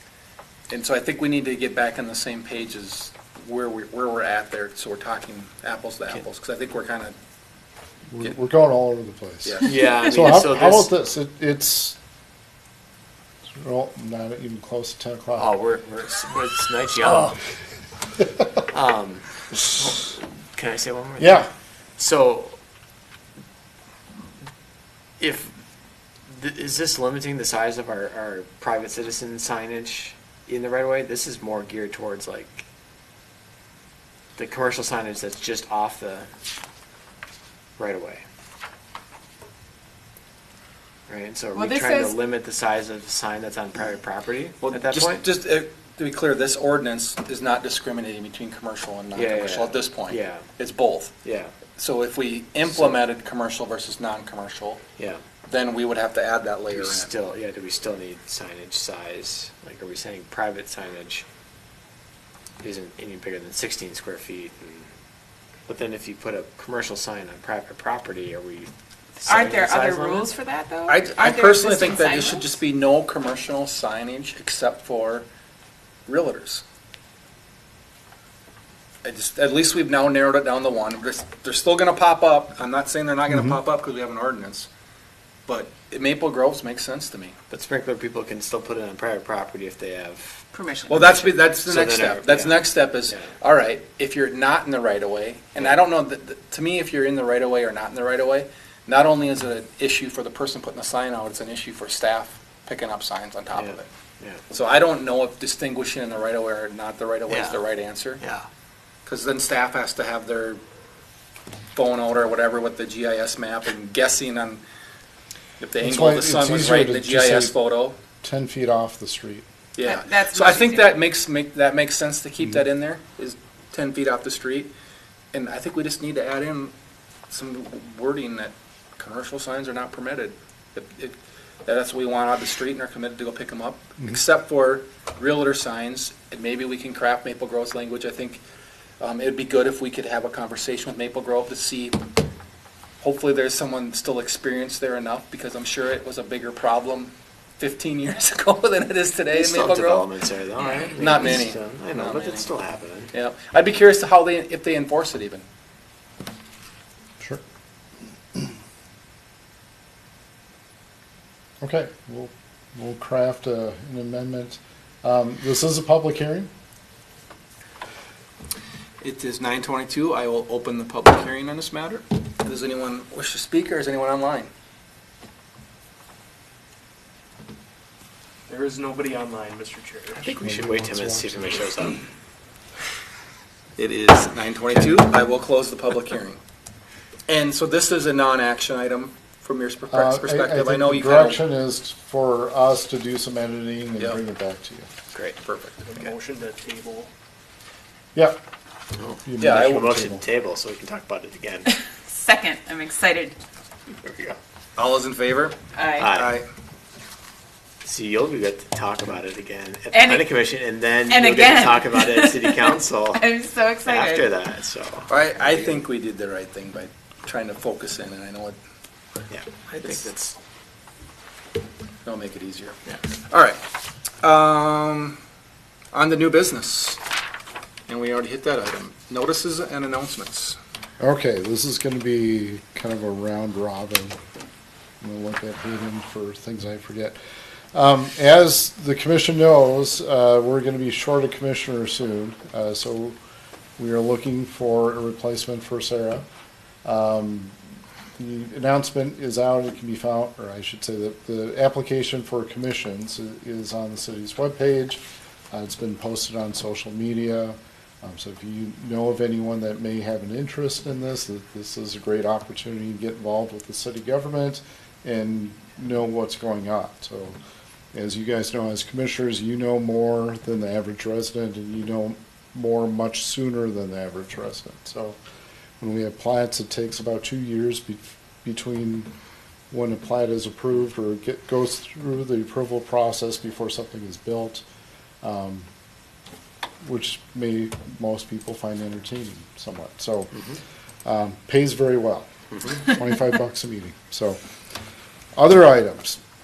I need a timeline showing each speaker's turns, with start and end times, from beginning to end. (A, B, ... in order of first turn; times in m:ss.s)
0:00.7-0:07.1 A
0:08.1-0:12.0 B
0:09.4-0:09.7 A
0:09.6-0:10.9 C
0:13.6-0:15.5 B
0:15.4-0:17.3 C
0:17.1-0:17.4 B
0:18.7-0:21.4 C
0:21.2-0:21.5 B
0:22.0-0:22.6 C
0:25.2-0:25.5 C
0:26.3-0:32.6 C
0:34.4-0:36.3 C
0:37.8-0:38.2 C
0:41.1-0:45.3 C
0:41.5-0:42.2 D
0:44.6-0:51.1 A
0:49.1-0:50.5 C
0:51.2-0:51.5 C
0:51.8-0:54.8 A
0:55.0-0:55.2 C
0:55.5-0:57.1 A
0:56.7-1:01.2 C
1:02.6-1:04.9 C
1:05.7-1:08.7 C
1:09.2-1:10.3 C
1:09.2-1:12.5 D
1:10.9-1:15.3 A
1:16.1-1:16.6 A
1:19.0-1:24.7 A
1:23.3-1:23.6 B
1:25.5-1:27.4 A
1:27.5-1:30.5 C
1:30.5-1:31.2 D
1:30.9-1:43.9 A
1:31.0-1:33.3 C
1:43.5-1:44.4 C
1:44.5-1:48.2 A
1:47.3-1:47.6 C
1:48.2-1:48.5 C
1:49.0-1:50.6 A
1:51.7-1:54.6 A
1:55.6-1:58.0 A
1:55.8-1:57.5 B
1:58.2-1:59.4 B
1:59.8-2:04.7 A
1:59.8-2:01.0 D
2:05.3-2:06.7 A
2:07.3-2:18.4 A
2:19.0-2:22.0 A
2:23.0-2:30.1 A
2:29.3-2:33.1 C
2:30.8-2:32.5 A
2:33.1-2:35.4 A
2:41.6-2:46.5 B
2:49.0-2:54.5 A
2:58.5-3:00.4 E
3:00.2-3:02.0 C
3:00.4-3:01.7 B
3:03.8-3:06.4 A
3:07.3-3:11.4 A
3:09.9-3:14.9 B
3:15.1-3:15.4 C
3:15.4-3:15.8 A
3:15.8-3:17.1 E
3:19.0-3:21.7 C
3:19.2-3:20.2 B
3:19.4-3:19.9 A
3:22.1-3:23.4 D
3:24.0-3:24.4 C
3:24.8-3:26.5 A
3:25.7-3:26.1 D
3:26.0-3:26.4 C
3:27.8-3:33.3 C
3:29.9-3:30.4 D
3:31.1-3:34.2 D
3:33.8-3:35.6 C
3:35.1-3:38.6 A
3:39.3-3:40.4 C
3:39.8-3:40.1 A
3:42.0-3:43.6 A
3:44.2-3:45.2 A
3:45.9-3:47.0 A
3:47.9-3:50.6 A
3:51.0-3:54.2 B
3:55.0-3:57.2 B
3:57.7-4:03.2 B
4:03.8-4:06.2 B
4:06.8-4:07.6 B
4:08.2-4:27.4 B
4:27.9-4:35.2 B
4:35.8-4:39.1 B
4:39.7-4:44.6 B
4:45.2-4:45.7 B
4:46.8-4:50.4 B
4:51.0-4:54.4 B
4:55.4-4:56.2 B